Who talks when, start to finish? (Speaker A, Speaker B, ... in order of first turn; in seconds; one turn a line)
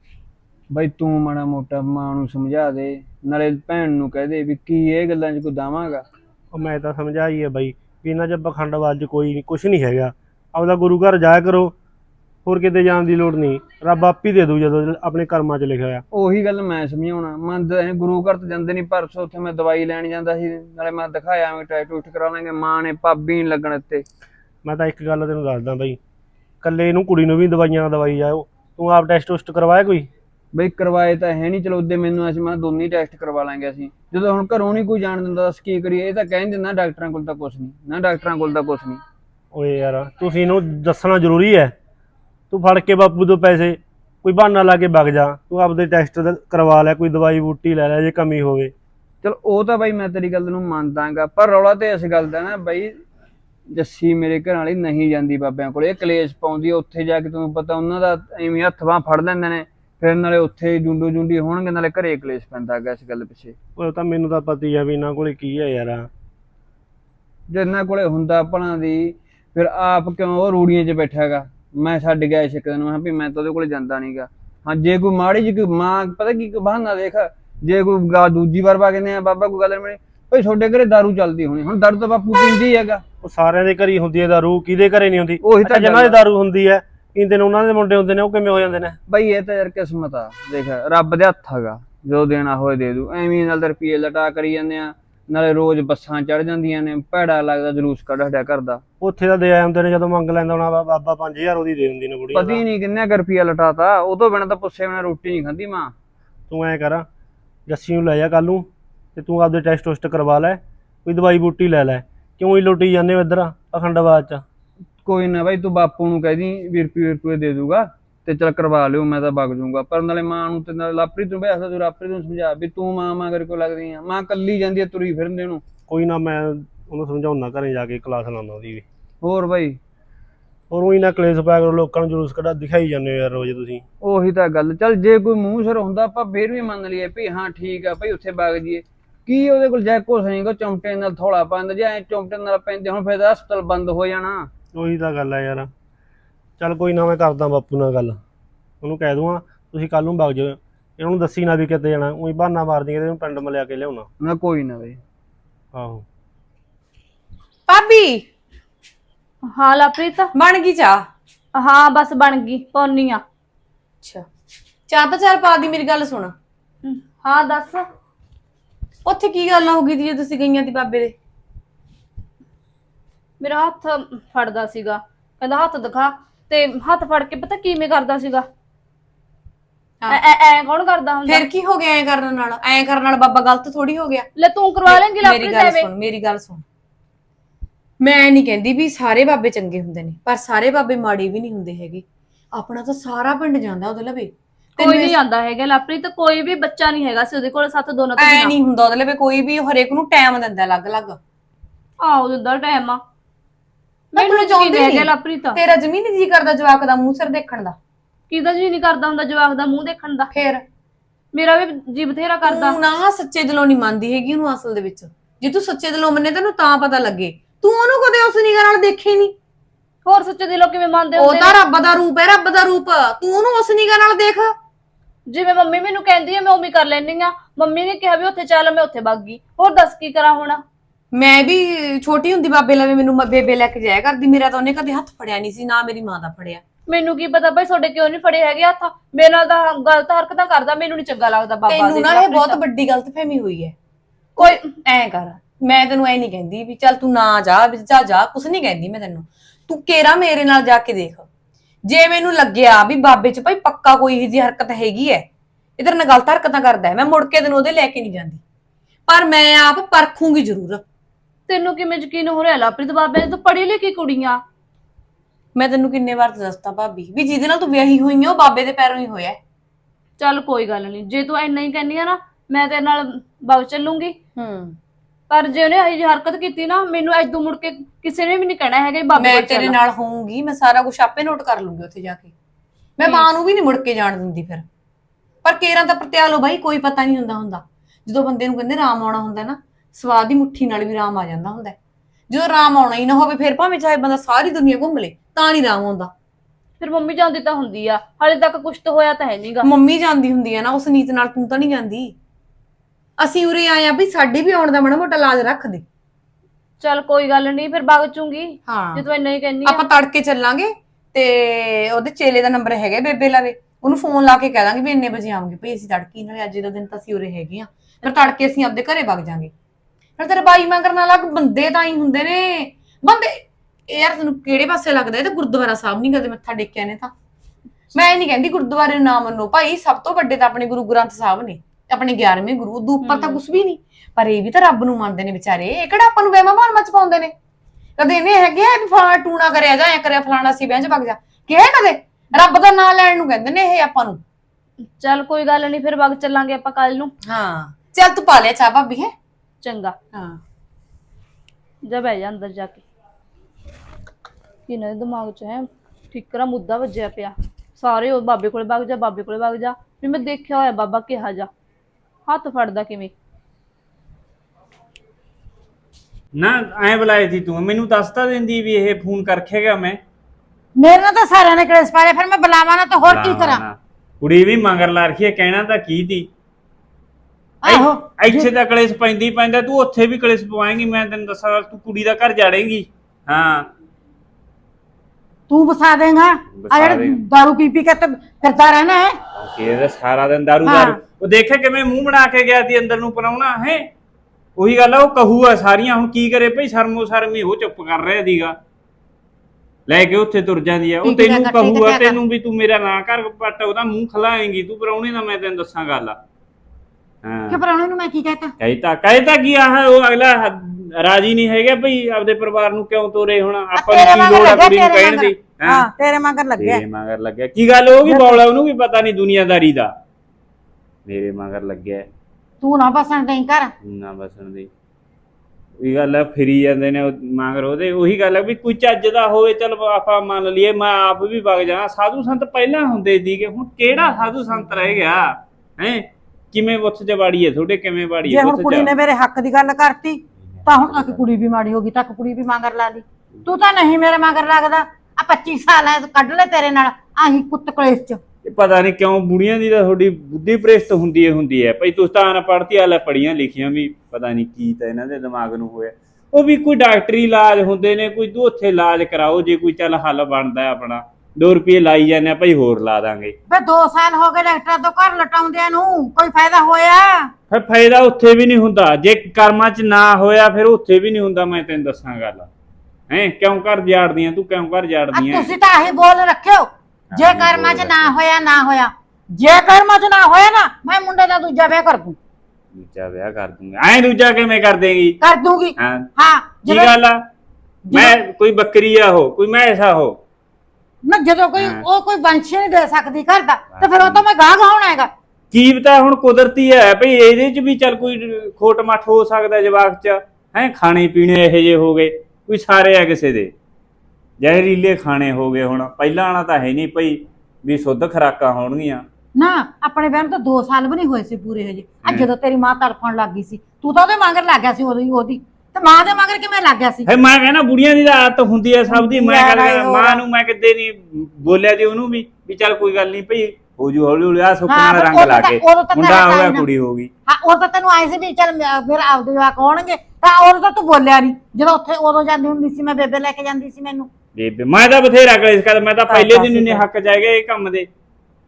Speaker A: 0.7-6.0
Speaker B: 6.5-11.7
Speaker B: 12.4-16.0
Speaker A: 16.1-24.0
Speaker B: 24.6-26.0
Speaker B: 26.6-30.1
Speaker A: 30.5-39.0
Speaker B: 39.5-41.7
Speaker B: 42.5-48.7
Speaker A: 49.2-53.0
Speaker A: 53.7-63.5
Speaker B: 63.8-66.1
Speaker A: 67.5-83.0
Speaker B: 83.2-89.0
Speaker A: 85.4-86.2
Speaker A: 89.1-98.8
Speaker B: 99.0-102.6
Speaker A: 102.3-105.9
Speaker B: 106.5-107.0
Speaker B: 107.7-114.4
Speaker A: 115.0-125.6
Speaker B: 125.9-128.8
Speaker A: 129.2-129.8
Speaker B: 130.7-133.8
Speaker A: 134.0-144.5
Speaker B: 144.7-145.7
Speaker B: 146.6-148.2
Speaker B: 148.8-154.1
Speaker A: 154.2-155.0
Speaker B: 155.7-156.0
Speaker C: 157.7-158.2
Speaker D: 159.5-160.3
Speaker C: 160.3-161.1
Speaker D: 161.5-163.2
Speaker C: 164.9-166.3
Speaker D: 166.8-167.8
Speaker C: 169.0-171.1
Speaker D: 173.4-178.4
Speaker D: 180.1-181.4
Speaker C: 181.3-184.3
Speaker D: 184.3-185.9
Speaker C: 184.8-186.6
Speaker C: 188.0-195.1
Speaker D: 194.8-198.5
Speaker C: 198.2-201.2
Speaker D: 202.0-203.0
Speaker D: 204.1-205.6
Speaker C: 204.1-207.8
Speaker D: 208.3-210.3
Speaker C: 210.3-210.6
Speaker D: 211.3-212.8
Speaker C: 212.4-219.3
Speaker D: 220.1-221.6
Speaker C: 221.2-224.5
Speaker D: 225.3-230.6
Speaker C: 231.1-236.6
Speaker D: 236.9-242.6
Speaker C: 241.7-243.7
Speaker C: 244.4-251.2
Speaker C: 251.8-255.2
Speaker C: 255.8-258.4
Speaker C: 259.1-260.8
Speaker D: 261.5-264.4
Speaker C: 265.5-269.4
Speaker D: 270.2-274.2
Speaker C: 274.4-274.8
Speaker D: 275.3-279.8
Speaker C: 279.1-282.3
Speaker C: 283.0-284.6
Speaker C: 285.4-291.8
Speaker C: 292.3-296.1
Speaker D: 296.8-299.7
Speaker C: 299.6-302.1
Speaker C: 303.2-305.8
Speaker D: 306.8-309.8
Speaker C: 308.6-309.0
Speaker C: 309.6-319.5
Speaker C: 320.2-327.1
Speaker C: 327.9-337.3
Speaker D: 333.0-333.4
Speaker C: 338.0-344.2
Speaker D: 345.0-347.1
Speaker C: 347.2-349.1
Speaker D: 349.6-349.9
Speaker C: 350.1-350.4
Speaker D: 351.9-352.8
Speaker D: 354.7-361.5
Speaker D: 362.3-363.1
Speaker E: 366.3-370.0
Speaker F: 370.8-373.6
Speaker E: 373.0-376.3
Speaker F: 377.6-378.5
Speaker E: 377.6-383.7
Speaker F: 385.5-389.2
Speaker E: 386.5-387.2
Speaker E: 389.4-393.9
Speaker F: 390.6-391.0
Speaker E: 394.6-398.6
Speaker E: 399.9-406.2
Speaker F: 401.0-402.2
Speaker E: 407.2-407.6
Speaker F: 407.5-408.5
Speaker E: 408.6-415.9
Speaker F: 413.7-416.8
Speaker E: 416.6-419.9
Speaker F: 418.0-418.4
Speaker E: 421.1-422.1
Speaker F: 422.6-423.7
Speaker E: 423.8-424.7
Speaker E: 425.8-438.9
Speaker F: 438.2-448.2
Speaker E: 440.6-441.2
Speaker E: 448.4-463.3
Speaker F: 463.5-467.3
Speaker E: 467.5-472.5
Speaker E: 473.1-475.5
Speaker F: 475.1-482.2
Speaker E: 477.1-478.1
Speaker E: 482.7-485.2
Speaker F: 485.2-486.9
Speaker E: 485.8-486.1
Speaker E: 486.6-487.2
Speaker F: 487.9-488.2
Speaker E: 487.9-490.2
Speaker F: 491.0-495.1
Speaker E: 491.6-491.8
Speaker E: 493.7-494.2
Speaker E: 495.5-503.5
Speaker E: 504.4-509.0
Speaker F: 509.4-517.1
Speaker E: 517.0-527.1
Speaker F: 518.9-520.2
Speaker F: 524.7-526.6
Speaker F: 527.3-534.1
Speaker E: 534.3-537.9
Speaker F: 536.1-536.8